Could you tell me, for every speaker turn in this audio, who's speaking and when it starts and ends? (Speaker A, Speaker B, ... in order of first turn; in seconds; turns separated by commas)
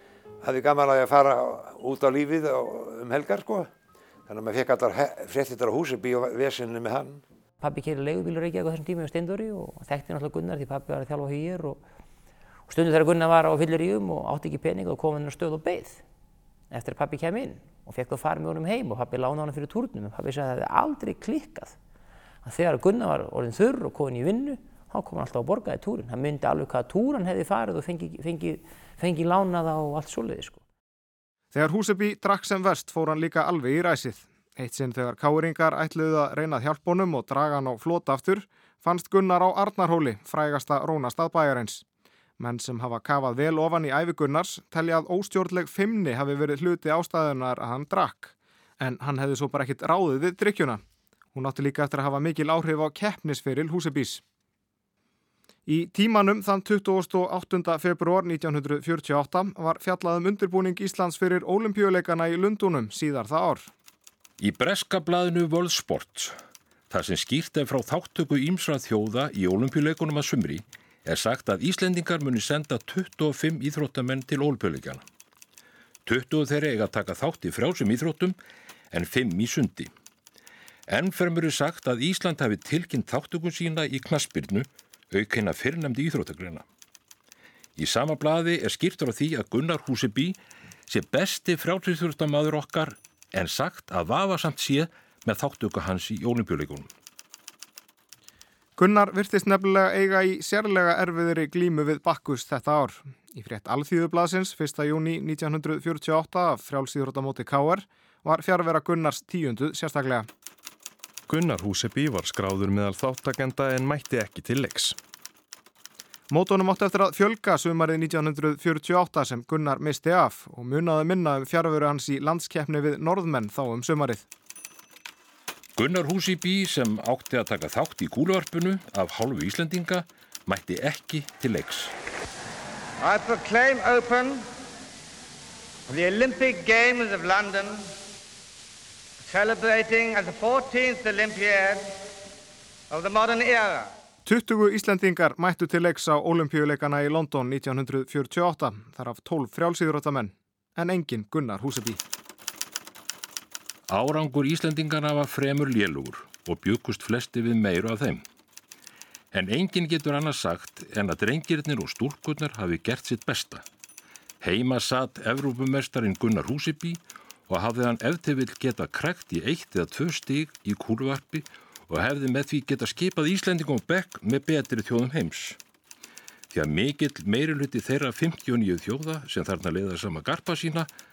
Speaker A: 0.4-3.7, Speaker A: 4.3-7.2, Speaker B: 7.6-11.8, Speaker B: 12.7-16.0, Speaker B: 16.7-21.8, Speaker B: 22.4-30.6, Speaker C: 31.5-41.8, Speaker C: 42.4-50.8, Speaker C: 51.3-54.2, Speaker C: 55.7-63.7, Speaker D: 64.4-66.4, Speaker D: 66.9-75.0, Speaker D: 76.1-78.4, Speaker D: 78.9-79.9, Speaker D: 80.9-86.6, Speaker D: 87.8-96.9, Speaker C: 98.8-110.3, Speaker E: 111.3-115.0, Speaker C: 116.3-124.3, Speaker D: 125.8-131.9, Speaker F: 133.0-134.5, Speaker F: 135.9-137.9, Speaker F: 139.3-141.9, Speaker F: 142.9-143.9, Speaker C: 144.3-152.0, Speaker D: 153.9-158.2, Speaker D: 159.3-163.7, Speaker D: 164.4-175.6, Speaker D: 176.5-180.9